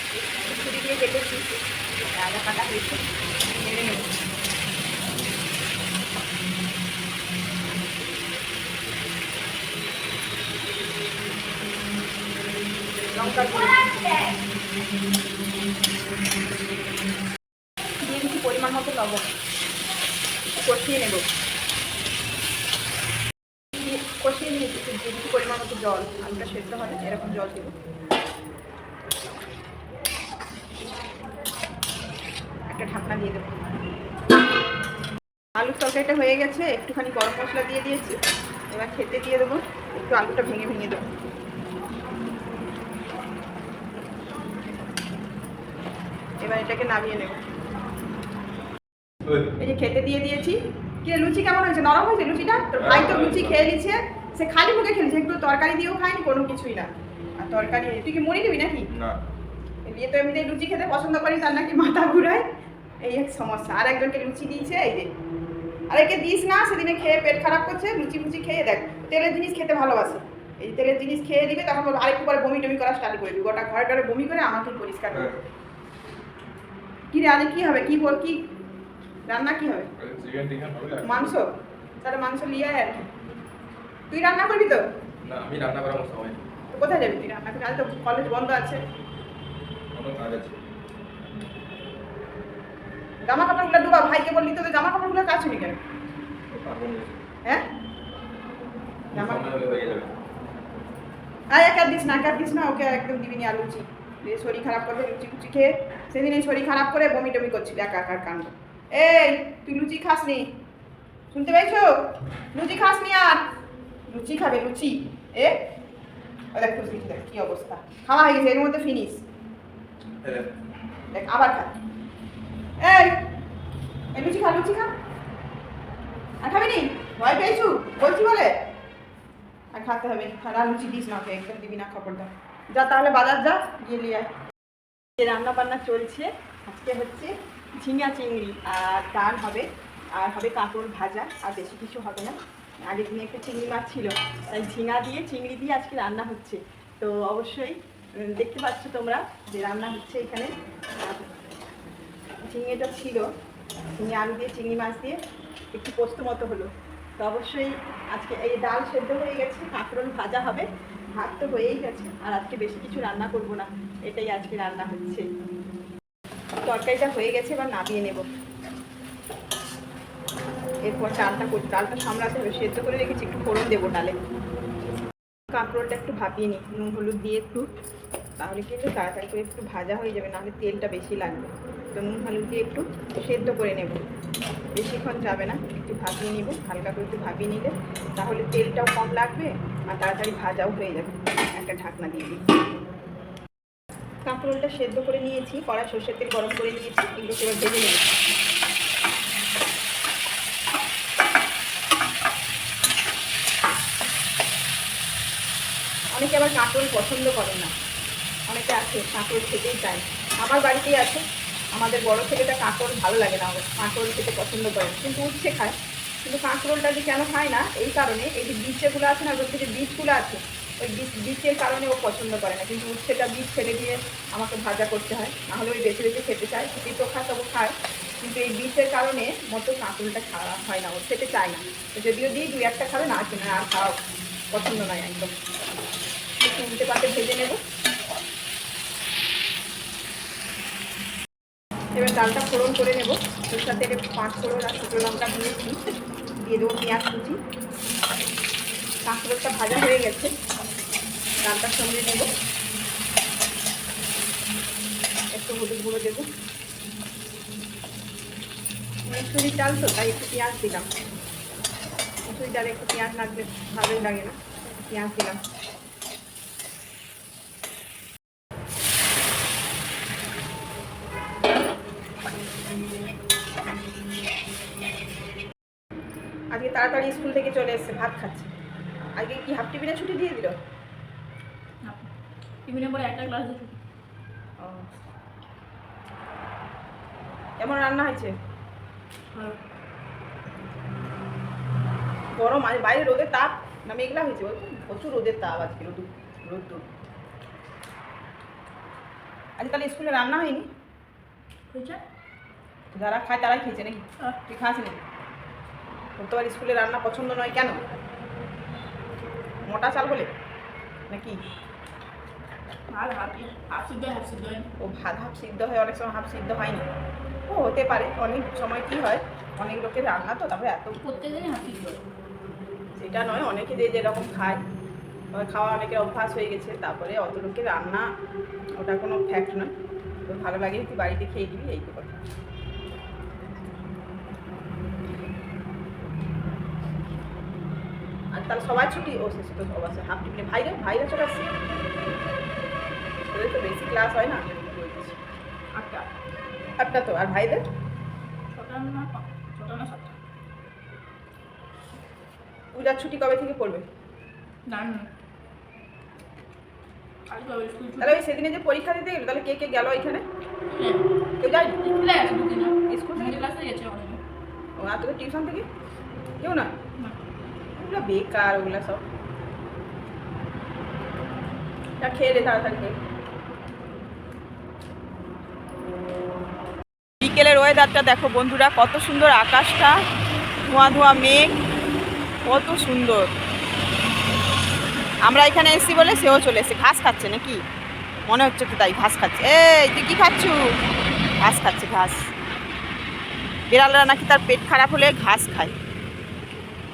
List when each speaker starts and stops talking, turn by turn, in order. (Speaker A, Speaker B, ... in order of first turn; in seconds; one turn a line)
Speaker A: 0.3-4.1
Speaker A: 13.2-14.0
Speaker A: 18.0-19.3
Speaker A: 20.4-21.3
Speaker A: 23.7-27.8
Speaker A: 32.7-33.6
Speaker A: 35.6-38.2
Speaker A: 38.7-41.0
Speaker A: 46.4-47.5
Speaker B: 49.2-49.5
Speaker A: 49.6-58.9
Speaker B: 52.8-53.7
Speaker B: 58.9-59.2
Speaker A: 59.9-62.5
Speaker A: 63.0-65.1
Speaker A: 65.9-75.3
Speaker A: 77.1-78.4
Speaker A: 79.3-79.9
Speaker B: 80.0-81.3
Speaker A: 81.0-83.1
Speaker A: 84.1-84.8
Speaker B: 85.2-86.4
Speaker A: 86.7-88.8
Speaker B: 89.9-90.6
Speaker A: 93.3-95.8
Speaker B: 96.5-97.2
Speaker A: 99.1-99.4
Speaker B: 99.1-100.1
Speaker A: 101.5-110.5
Speaker A: 111.3-113.5
Speaker A: 114.1-115.7
Speaker A: 116.5-119.2
Speaker B: 120.2-120.5
Speaker A: 121.1-121.8
Speaker A: 122.8-123.3
Speaker A: 124.1-124.9
Speaker A: 126.4-128.6
Speaker A: 129.7-134.3
Speaker A: 135.2-151.4
Speaker A: 152.4-153.3
Speaker A: 153.9-155.2
Speaker A: 155.7-165.3
Speaker A: 166.7-168.2
Speaker A: 170.9-174.2
Speaker A: 175.5-177.7
Speaker A: 178.4-184.0
Speaker A: 184.8-192.5
Speaker A: 194.2-198.1
Speaker A: 206.2-207.7
Speaker A: 208.5-211.2
Speaker A: 211.7-235.4
Speaker A: 236.4-237.6
Speaker A: 242.0-245.8
Speaker A: 246.4-247.4
Speaker A: 249.1-250.3
Speaker A: 251.4-252.3
Speaker A: 255.3-256.3
Speaker A: 259.1-260.9
Speaker A: 262.3-265.4
Speaker A: 276.5-278.5
Speaker A: 279.2-280.6
Speaker C: 282.7-283.8
Speaker A: 284.6-284.9
Speaker A: 287.6-288.3
Speaker A: 292.3-296.9
Speaker A: 299.6-300.7
Speaker C: 301.7-302.0
Speaker A: 302.9-305.0
Speaker A: 306.2-307.8
Speaker A: 309.7-310.3
Speaker A: 311.1-311.4
Speaker C: 312.9-314.7
Speaker A: 314.8-316.9
Speaker A: 317.5-321.0
Speaker C: 321.0-322.0
Speaker A: 323.0-324.6
Speaker A: 325.3-328.1
Speaker A: 328.8-329.7
Speaker A: 330.3-332.2
Speaker A: 338.4-341.5
Speaker A: 343.3-345.2
Speaker C: 345.8-346.1
Speaker A: 346.8-347.6
Speaker C: 348.5-350.2
Speaker A: 352.7-353.9
Speaker C: 354.7-355.1
Speaker C: 357.3-358.2
Speaker A: 358.0-360.2
Speaker C: 360.7-361.1
Speaker A: 361.4-361.8
Speaker C: 361.8-364.2
Speaker A: 362.9-363.5
Speaker A: 364.8-365.7
Speaker A: 366.4-366.8
Speaker A: 367.8-369.1
Speaker A: 372.0-373.0
Speaker A: 377.2-380.0
Speaker A: 380.7-381.6
Speaker A: 382.5-383.3
Speaker A: 385.2-387.6
Speaker A: 388.3-390.8
Speaker A: 391.4-392.3
Speaker A: 393.7-395.8